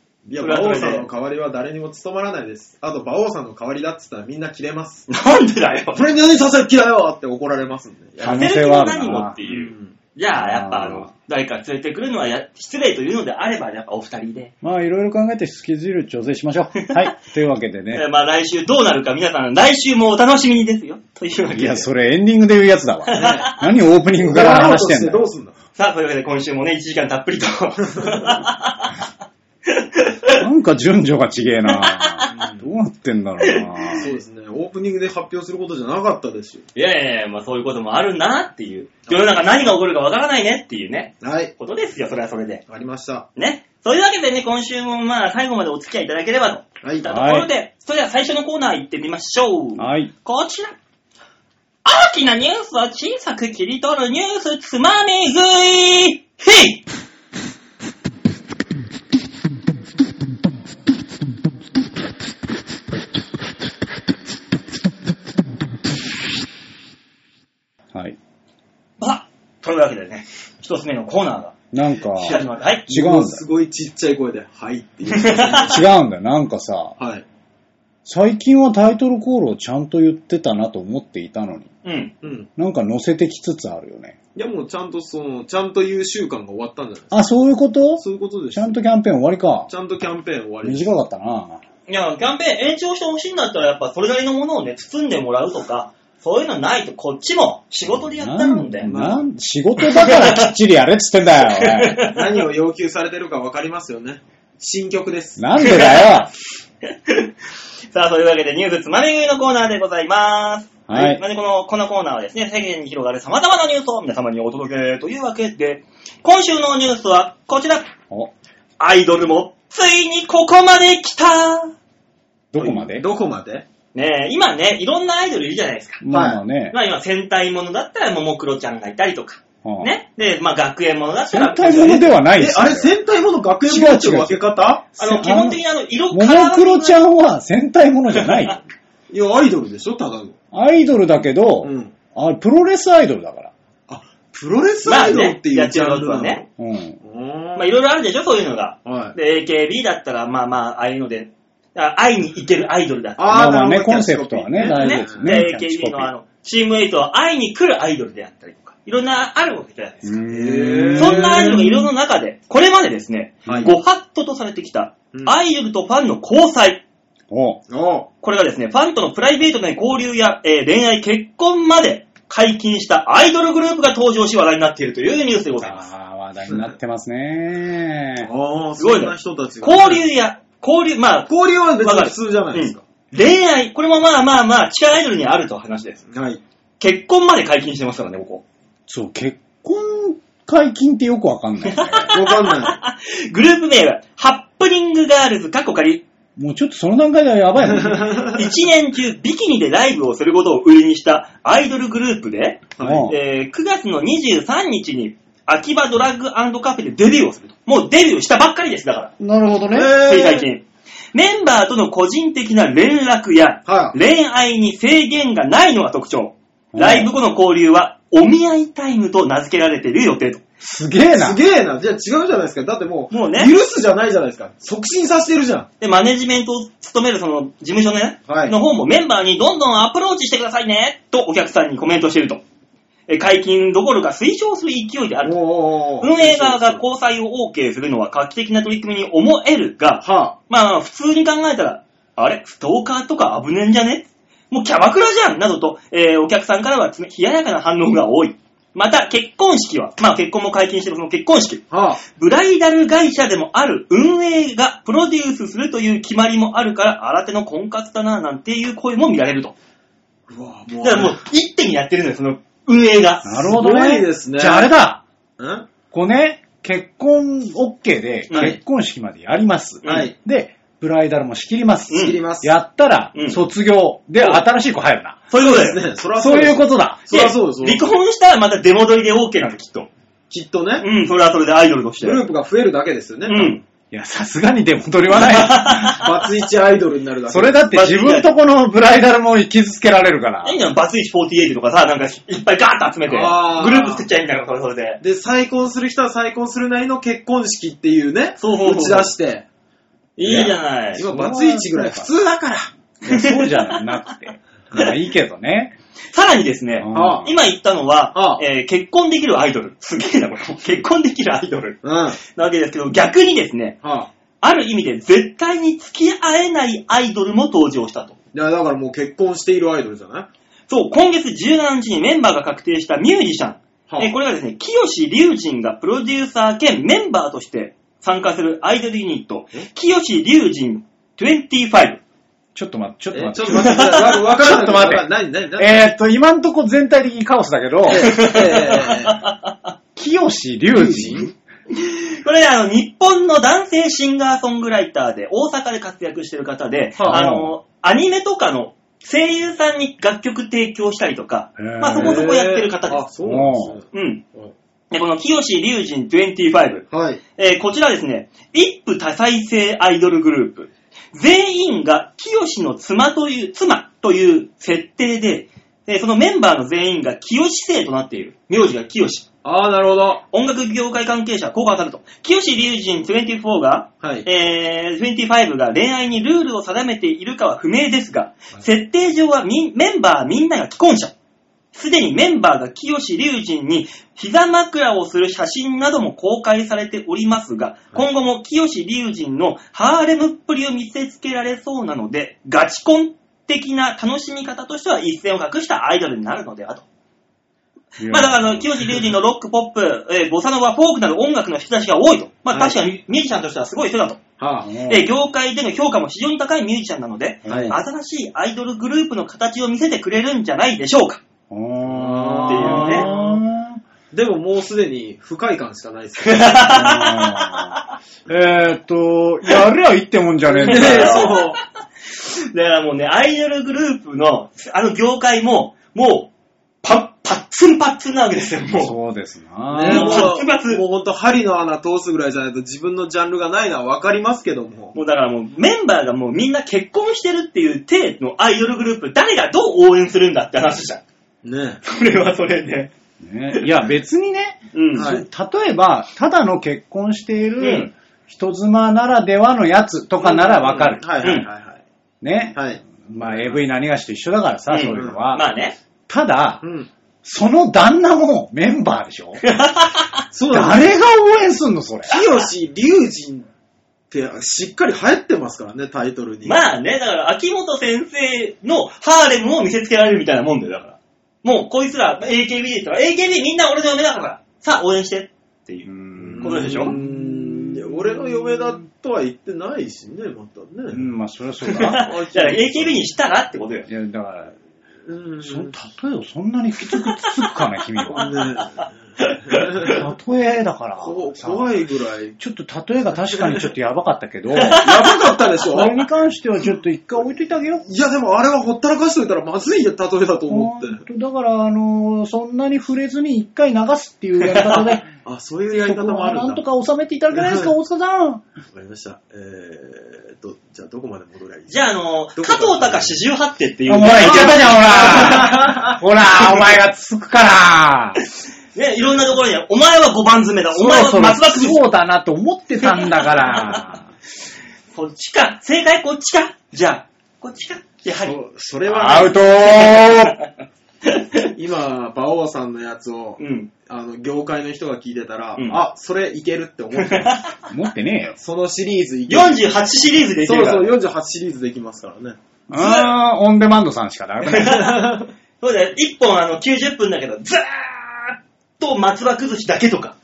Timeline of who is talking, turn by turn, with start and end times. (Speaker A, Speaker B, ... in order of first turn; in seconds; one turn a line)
Speaker A: 0.2-5.1
Speaker B: 0.4-1.1
Speaker B: 5.1-6.0
Speaker A: 5.9-8.5
Speaker B: 8.2-14.5
Speaker C: 8.2-9.4
Speaker A: 9.4-9.9
Speaker C: 10.3-11.1
Speaker C: 14.6-18.0
Speaker B: 16.8-17.1
Speaker B: 17.9-21.9
Speaker C: 21.5-25.2
Speaker B: 23.1-23.6
Speaker A: 23.1-23.5
Speaker A: 24.2-25.6
Speaker B: 25.8-29.0
Speaker B: 29.6-30.4
Speaker C: 30.4-34.1
Speaker B: 31.7-32.3
Speaker A: 32.3-32.7
Speaker B: 33.4-33.9
Speaker A: 34.0-36.6
Speaker B: 36.7-42.6
Speaker A: 41.2-41.5
Speaker A: 42.7-43.3
Speaker B: 43.4-50.8
Speaker A: 46.8-47.1
Speaker C: 47.0-47.5
Speaker C: 49.8-50.1
Speaker B: 51.8-56.8
Speaker B: 69.0-71.5
Speaker C: 71.7-73.4
Speaker A: 72.1-75.9
Speaker B: 72.3-72.9
Speaker B: 75.1-75.6
Speaker C: 75.7-77.0
Speaker A: 77.0-77.2
Speaker C: 78.0-81.7
Speaker B: 81.8-82.1
Speaker A: 82.2-82.5
Speaker C: 82.6-84.2
Speaker A: 84.3-87.2
Speaker C: 87.1-89.7
Speaker A: 88.0-88.8
Speaker A: 89.7-90.9
Speaker C: 90.6-91.6
Speaker B: 91.9-98.9
Speaker C: 97.9-102.0
Speaker A: 98.8-99.2
Speaker B: 99.8-100.5
Speaker B: 101.5-102.4
Speaker A: 102.1-105.5
Speaker C: 105.4-106.3
Speaker B: 105.6-106.3
Speaker B: 106.9-107.3
Speaker B: 107.9-117.9
Speaker C: 110.9-111.2
Speaker B: 118.8-121.7
Speaker C: 122.5-123.0
Speaker A: 122.6-123.6
Speaker B: 123.9-126.0
Speaker C: 126.0-126.8
Speaker A: 126.1-126.4
Speaker B: 126.7-132.1
Speaker C: 129.6-129.9
Speaker C: 131.3-132.9
Speaker A: 131.7-134.9
Speaker C: 133.7-134.4
Speaker C: 135.0-135.6
Speaker B: 135.0-137.0
Speaker C: 136.1-138.6
Speaker B: 138.1-138.6
Speaker A: 139.1-140.3
Speaker C: 140.5-143.5
Speaker A: 141.6-141.9
Speaker A: 143.9-146.5
Speaker B: 144.8-146.4
Speaker C: 146.6-147.0
Speaker A: 147.0-147.7
Speaker B: 147.5-153.5
Speaker A: 148.8-149.2
Speaker A: 153.2-155.4
Speaker C: 153.3-156.1
Speaker B: 154.7-160.2
Speaker C: 160.0-161.5
Speaker A: 160.3-161.9
Speaker B: 161.0-166.8
Speaker C: 163.5-163.7
Speaker A: 163.5-163.7
Speaker C: 167.3-167.6
Speaker A: 167.7-168.1
Speaker B: 168.2-175.9
Speaker C: 175.6-178.3
Speaker A: 178.2-180.0
Speaker B: 178.8-186.0
Speaker A: 181.3-182.8
Speaker A: 186.1-186.4
Speaker B: 186.8-188.4
Speaker C: 188.9-192.2
Speaker B: 191.7-196.0
Speaker A: 192.1-192.8
Speaker C: 196.3-198.2
Speaker A: 197.8-198.3
Speaker B: 198.2-209.1
Speaker A: 202.8-203.1
Speaker C: 202.8-203.2
Speaker C: 209.2-209.9
Speaker A: 209.7-210.5
Speaker B: 209.9-220.4
Speaker A: 213.7-213.9
Speaker C: 216.7-217.1
Speaker C: 220.6-221.4
Speaker A: 221.1-225.7
Speaker B: 223.1-223.5
Speaker B: 225.8-232.4
Speaker A: 228.3-228.6
Speaker B: 233.1-235.4
Speaker A: 235.2-236.8
Speaker B: 236.0-259.5
Speaker A: 240.0-240.4
Speaker A: 251.7-252.0
Speaker A: 260.3-261.2
Speaker B: 260.8-263.3
Speaker C: 263.2-265.0
Speaker A: 263.4-264.7
Speaker A: 265.4-265.7
Speaker C: 265.9-275.2
Speaker B: 268.3-268.6
Speaker A: 268.3-268.6
Speaker B: 269.8-270.1
Speaker A: 269.8-270.1
Speaker B: 271.9-272.2
Speaker A: 271.9-272.5
Speaker B: 273.1-273.4
Speaker B: 275.3-275.8
Speaker A: 275.4-277.9
Speaker C: 276.2-277.0
Speaker B: 277.1-279.9
Speaker A: 280.3-280.9
Speaker B: 280.8-282.2
Speaker A: 282.0-283.6
Speaker B: 283.3-283.6
Speaker C: 283.9-286.0
Speaker B: 285.1-286.1
Speaker A: 285.9-287.6
Speaker C: 287.3-290.6
Speaker B: 287.7-288.3
Speaker B: 290.4-295.0
Speaker A: 293.1-294.1
Speaker A: 295.0-299.4
Speaker B: 298.4-299.1
Speaker B: 300.2-301.0
Speaker C: 300.2-302.1
Speaker A: 300.2-302.7
Speaker C: 303.0-305.8
Speaker B: 303.1-303.9
Speaker B: 306.1-313.8
Speaker C: 306.8-307.3
Speaker A: 306.9-307.4
Speaker A: 308.1-308.4
Speaker A: 311.8-312.2
Speaker A: 313.8-314.1
Speaker B: 314.4-318.1
Speaker A: 318.3-320.3
Speaker B: 320.7-332.0
Speaker A: 323.9-324.1
Speaker C: 332.5-335.1
Speaker A: 333.1-335.9
Speaker B: 333.6-334.0
Speaker C: 335.6-338.1
Speaker A: 337.9-339.2
Speaker B: 337.9-339.7
Speaker C: 339.9-341.3
Speaker A: 340.7-341.3
Speaker B: 341.7-353.1
Speaker A: 347.0-347.2
Speaker C: 347.1-347.5
Speaker C: 351.6-352.3
Speaker A: 351.9-354.5
Speaker C: 353.2-353.7
Speaker B: 353.9-354.2
Speaker B: 354.9-356.9
Speaker A: 356.9-357.2
Speaker B: 357.4-369.2
Speaker A: 369.4-370.2
Speaker B: 370.3-381.1
Speaker A: 374.0-374.3
Speaker B: 381.7-396.9
Speaker C: 398.0-399.0
Speaker B: 398.1-404.2
Speaker A: 402.5-402.8
Speaker A: 404.4-404.7
Speaker C: 404.6-405.1
Speaker B: 404.8-411.2
Speaker C: 407.4-407.8
Speaker A: 407.5-407.8
Speaker C: 411.5-413.8
Speaker A: 411.8-413.4
Speaker B: 412.5-413.1
Speaker A: 414.1-416.9
Speaker B: 416.2-417.8
Speaker C: 416.7-421.4
Speaker A: 420.5-421.6
Speaker B: 420.6-421.5
Speaker B: 422.2-426.3
Speaker B: 426.8-428.9
Speaker C: 428.7-430.3
Speaker A: 429.7-434.9
Speaker B: 429.8-430.8
Speaker B: 434.9-441.0
Speaker A: 441.4-441.8
Speaker B: 441.8-442.9
Speaker C: 443.2-451.1
Speaker B: 444.7-445.1
Speaker A: 444.9-445.2
Speaker B: 447.6-447.9
Speaker A: 450.2-451.8
Speaker C: 452.2-455.5
Speaker A: 452.5-453.6
Speaker B: 454.7-455.7
Speaker C: 456.1-456.6
Speaker A: 456.6-456.9
Speaker C: 457.2-459.4
Speaker B: 459.4-460.2
Speaker A: 460.3-460.9
Speaker C: 460.5-462.2
Speaker A: 462.1-463.5
Speaker B: 462.1-462.4
Speaker A: 464.1-466.6
Speaker B: 466.4-476.9
Speaker C: 475.9-478.8
Speaker A: 476.2-481.1
Speaker C: 480.9-482.1
Speaker B: 481.7-483.9
Speaker A: 481.9-482.9
Speaker C: 483.9-484.5
Speaker A: 485.1-485.7
Speaker C: 485.4-488.3
Speaker A: 488.1-488.9
Speaker B: 489.2-489.6
Speaker A: 489.4-490.0
Speaker C: 489.8-491.7
Speaker A: 491.0-492.4
Speaker C: 492.4-497.8
Speaker A: 493.4-493.6
Speaker B: 494.5-495.1
Speaker A: 494.8-496.0
Speaker A: 497.9-501.0
Speaker C: 500.5-505.1
Speaker B: 504.4-505.0
Speaker A: 505.2-506.6
Speaker C: 505.8-508.4
Speaker A: 507.3-507.7
Speaker A: 508.7-513.1
Speaker B: 511.7-515.7
Speaker C: 513.9-518.2
Speaker A: 514.2-516.0
Speaker B: 518.7-521.8
Speaker C: 520.7-524.0
Speaker B: 522.8-523.8
Speaker B: 524.9-528.4
Speaker A: 528.2-529.5
Speaker C: 528.9-530.4
Speaker B: 529.8-530.3
Speaker B: 531.0-531.5
Speaker A: 531.4-537.4
Speaker B: 533.4-533.7
Speaker B: 537.0-537.5
Speaker C: 537.7-538.4
Speaker A: 538.4-539.6
Speaker B: 539.3-540.9
Speaker A: 540.4-542.4
Speaker C: 542.7-544.9
Speaker B: 542.7-543.1
Speaker B: 544.5-545.0
Speaker A: 544.6-545.3
Speaker B: 545.6-550.1